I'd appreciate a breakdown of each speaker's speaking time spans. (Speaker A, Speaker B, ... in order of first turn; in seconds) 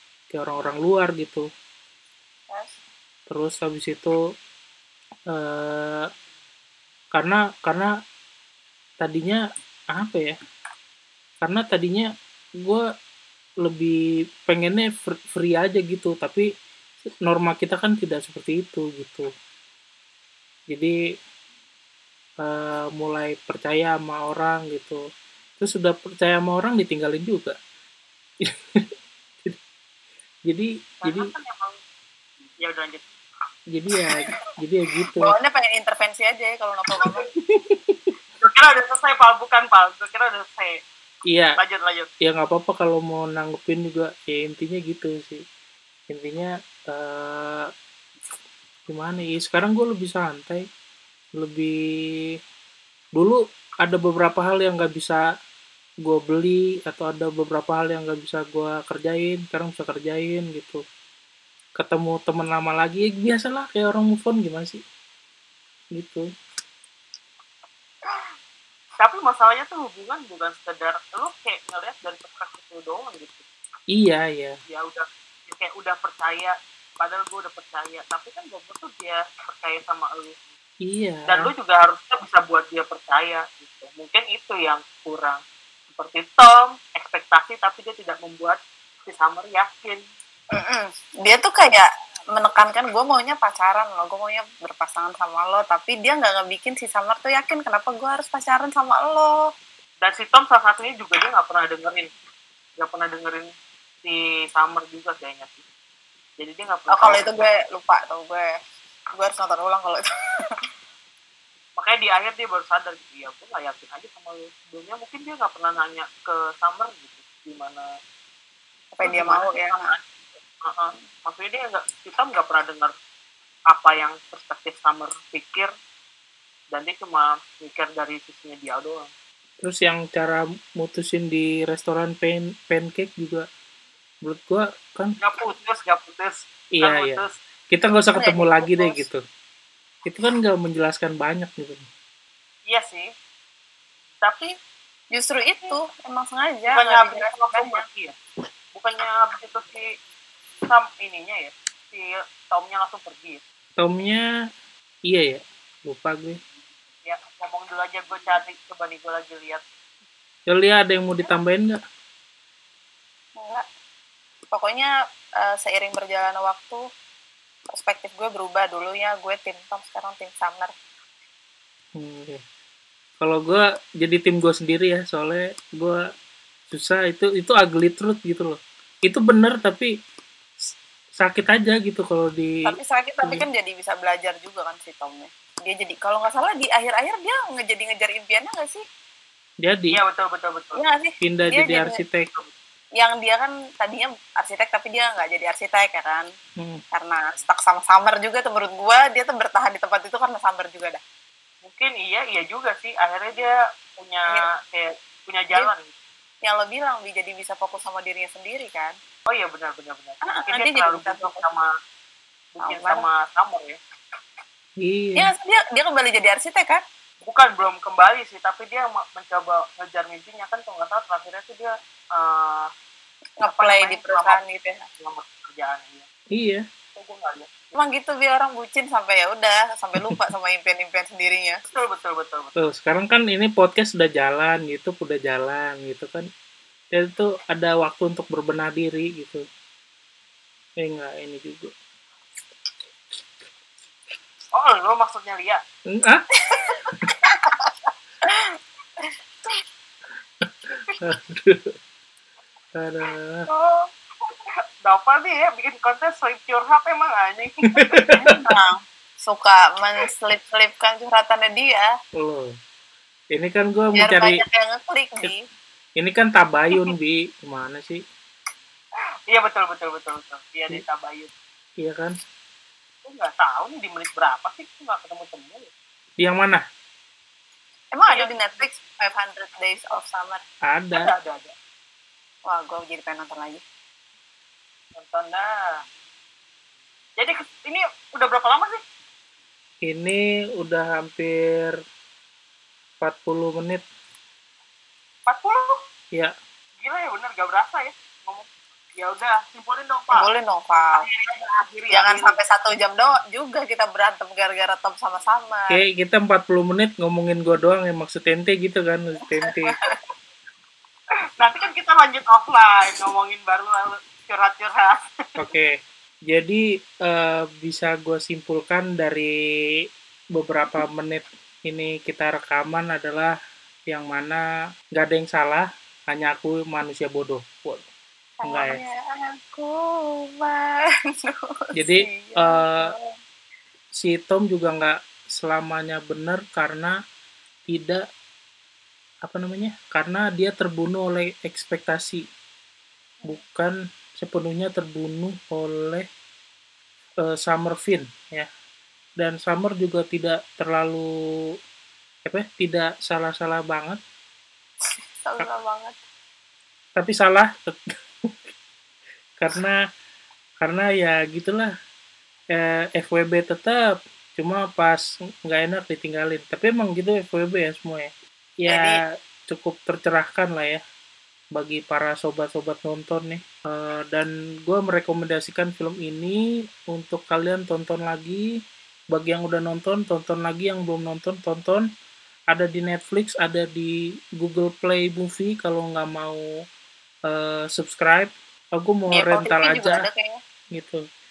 Speaker A: 0.3-1.5, 3.3-4.2, 5.3-6.1, 7.2-7.9, 9.0-9.4, 9.9-10.4, 11.4-12.1, 13.6-13.9, 14.5-16.5, 17.2-19.3, 20.7-20.9, 22.4-25.0, 25.6-27.6, 28.4-28.8, 30.5-31.3, 33.7-35.3, 37.5-38.1, 41.3-41.5, 42.2-45.4, 46.1-47.7, 48.9-50.6, 51.4-51.7, 53.1-55.2, 56.0-60.8, 61.8-64.8, 66.0-66.2, 73.9-74.6, 80.8-81.5, 129.6-133.4, 134.2-135.2, 136.8-139.2, 140.0-141.9, 153.8-154.2, 155.1-156.4, 160.5-161.8, 171.9-172.4, 173.2-176.0, 176.7-179.9, 181.2-182.7, 189.6-190.0, 191.2-192.3, 214.8-215.3, 226.3-226.6, 232.6-236.2, 236.9-239.4, 240.8-241.7, 245.9-246.2, 250.4-251.7, 252.8-253.5, 257.8-258.3, 262.2-262.5, 263.3-264.4, 266.0-268.0, 271.8-272.1, 276.2-276.6, 280.7-281.1, 289.8-291.8, 293.0-293.8, 305.7-309.8, 315.4-315.7, 316.3-319.3, 320.3-323.3, 323.9-324.4, 324.9-327.8, 328.4-328.8, 331.8-332.9, 334.0-336.9, 337.7-338.0, 339.2-342.2, 343.2-346.1, 347.2-348.5, 349.2-351.1, 352.2-354.0, 357.0-357.8, 359.4-359.8, 360.6-361.7, 362.5-368.1, 368.6-369.0, 369.5-370.8, 371.5-378.4, 379.1-381.8, 382.5-386.4, 387.3-390.1, 390.7-391.0
Speaker B: 2.5-2.8, 35.1-37.3, 90.5-99.4, 106.9-108.5, 109.2-110.5, 119.0-119.9, 138.1-139.0, 145.1-147.8, 163.4-163.6, 164.5-164.9, 165.4-166.8, 167.7-170.7, 182.7-188.8, 190.8-192.0, 193.0-196.2, 196.9-201.0, 206.4-208.9, 210.3-211.4, 212.6-213.0, 215.2-216.8, 223.4-224.8, 227.8-231.6, 246.6-247.4, 248.2-248.6, 258.3-261.9, 263.9-265.4, 277.9-280.4, 282.5-283.6, 300.1-301.1, 301.9-305.8, 328.4-333.1, 355.2-356.0, 368.7-369.0, 389.1-390.4
Speaker C: 31.0-31.8, 32.6-33.0, 38.4-40.8, 41.6-42.1, 69.0-73.5, 74.7-80.4, 81.3-90.0, 100.0-102.1, 102.8-103.5, 104.0-105.6, 106.4-107.2, 111.8-117.9, 119.0-120.0, 120.6-122.9, 123.7-125.7, 126.7-129.1, 135.2-137.3, 142.7-143.1, 144.2-144.5, 146.7-148.1, 148.7-150.0, 150.7-153.4, 157.0-159.6, 189.9-190.8, 201.6-205.9, 209.3-211.7, 212.6-213.8, 217.2-222.7, 223.4-224.4, 225.0-226.1, 226.9-227.8, 231.7-232.5, 244.5-245.6, 253.5-254.3, 254.8-258.3, 269.3-271.3, 273.0-275.7, 278.1-278.6, 281.0-281.5, 284.9-285.8, 287.2-288.8, 295.3-295.8, 296.8-300.3, 300.9-302.4, 311.4-315.1